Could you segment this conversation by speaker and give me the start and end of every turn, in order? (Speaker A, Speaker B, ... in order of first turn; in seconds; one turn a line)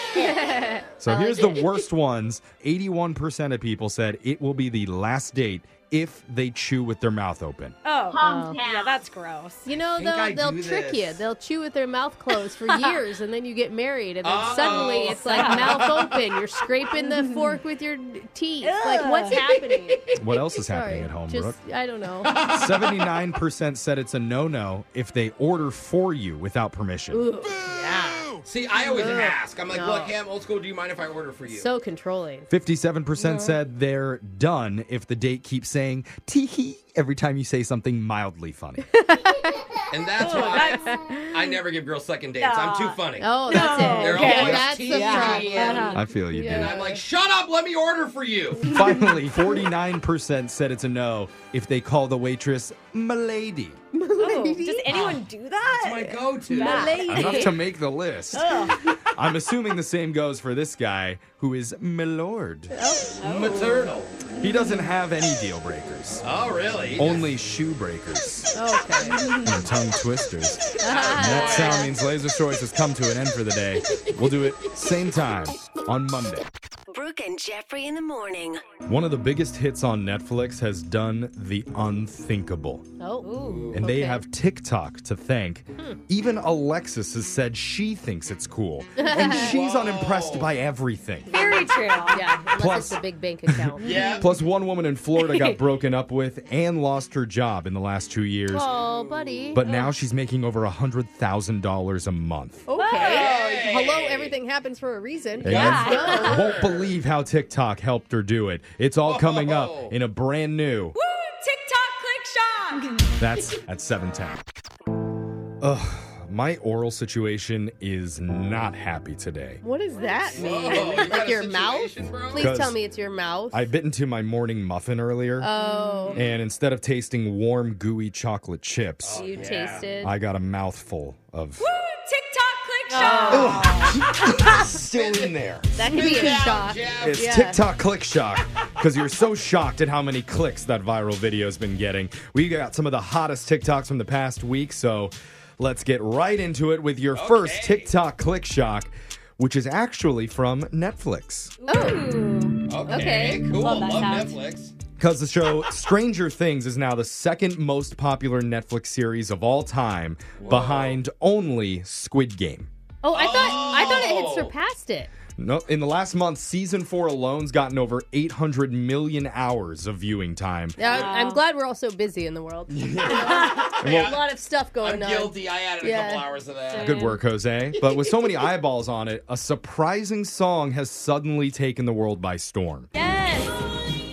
Speaker A: 0.1-0.8
Speaker B: 1.0-7.8
Speaker C: 1.1-1.5
Speaker A: 7.8-9.6
Speaker C: 8.2-8.6
Speaker D: 8.3-8.8
Speaker C: 9.6-20.1
Speaker E: 9.9-11.2
Speaker A: 12.7-13.0
Speaker E: 14.2-16.2
Speaker A: 14.5-16.0
Speaker A: 17.0-17.6
Speaker A: 18.6-19.4
Speaker E: 19.3-20.1
Speaker B: 20.1-21.6
Speaker C: 20.7-22.4
Speaker E: 22.2-23.1
Speaker B: 22.5-27.3
Speaker C: 27.1-30.1
Speaker E: 28.4-31.7
Speaker C: 31.5-32.5
Speaker B: 32.5-38.9
Speaker C: 39.0-39.6
Speaker E: 39.9-48.8
Speaker A: 40.2-41.3
Speaker C: 40.2-41.1
Speaker A: 42.4-46.0
Speaker C: 43.2-47.0
Speaker B: 45.9-46.7
Speaker B: 48.6-53.8
Speaker C: 53.9-55.1
Speaker A: 54.2-57.6
Speaker E: 54.9-57.2
Speaker C: 56.5-57.5
Speaker B: 57.1-62.7
Speaker A: 58.3-58.9
Speaker C: 62.7-63.2
Speaker A: 63.2-64.0
Speaker E: 63.2-64.2
Speaker B: 64.4-66.2
Speaker E: 66.2-67.3
Speaker B: 66.9-68.5
Speaker C: 68.5-69.2
Speaker A: 69.2-69.5
Speaker B: 69.4-76.5
Speaker C: 70.8-71.9
Speaker E: 70.8-71.9
Speaker D: 76.9-78.6
Speaker B: 78.9-82.9
Speaker C: 83.0-84.2
Speaker A: 83.2-83.7
Speaker E: 83.4-83.8
Speaker B: 83.7-91.7
Speaker C: 89.0-89.5
Speaker E: 89.1-90.5
Speaker A: 91.3-92.2
Speaker C: 92.1-94.0
Speaker B: 92.5-98.7
Speaker E: 93.8-94.4
Speaker A: 93.8-94.2
Speaker A: 95.3-95.6
Speaker C: 98.5-99.6
Speaker E: 98.8-99.5
Speaker B: 99.5-102.6
Speaker A: 99.6-99.9
Speaker C: 102.7-106.4
Speaker A: 102.7-103.4
Speaker E: 103.0-104.4
Speaker B: 105.4-110.9
Speaker E: 105.4-106.9
Speaker A: 105.5-106.5
Speaker E: 109.0-109.9
Speaker A: 110.9-113.0
Speaker B: 113.2-114.4
Speaker B: 115.6-119.6
Speaker C: 119.6-123.6
Speaker E: 120.3-122.6
Speaker B: 122.4-122.8
Speaker B: 123.5-125.5
Speaker C: 125.4-126.2
Speaker A: 125.6-126.2
Speaker E: 126.1-126.4
Speaker B: 126.1-129.3
Speaker E: 129.0-129.9
Speaker C: 129.2-130.1
Speaker A: 129.3-130.0
Speaker B: 130.0-131.6
Speaker A: 131.6-134.0
Speaker C: 132.9-133.8
Speaker B: 133.3-135.7
Speaker E: 134.9-137.3
Speaker C: 135.8-137.6
Speaker B: 137.0-151.5
Speaker E: 147.1-147.9
Speaker A: 151.6-154.4
Speaker C: 151.7-152.0
Speaker E: 152.7-154.7
Speaker C: 152.9-153.4
Speaker B: 155.0-162.7
Speaker E: 160.4-161.0
Speaker C: 163.0-165.1
Speaker E: 163.1-164.5
Speaker B: 165.4-170.8
Speaker C: 170.8-176.3
Speaker A: 170.8-171.4
Speaker B: 172.7-174.2
Speaker E: 172.9-174.2
Speaker E: 174.8-177.0
Speaker A: 176.7-177.2
Speaker B: 176.8-182.9
Speaker A: 182.9-183.7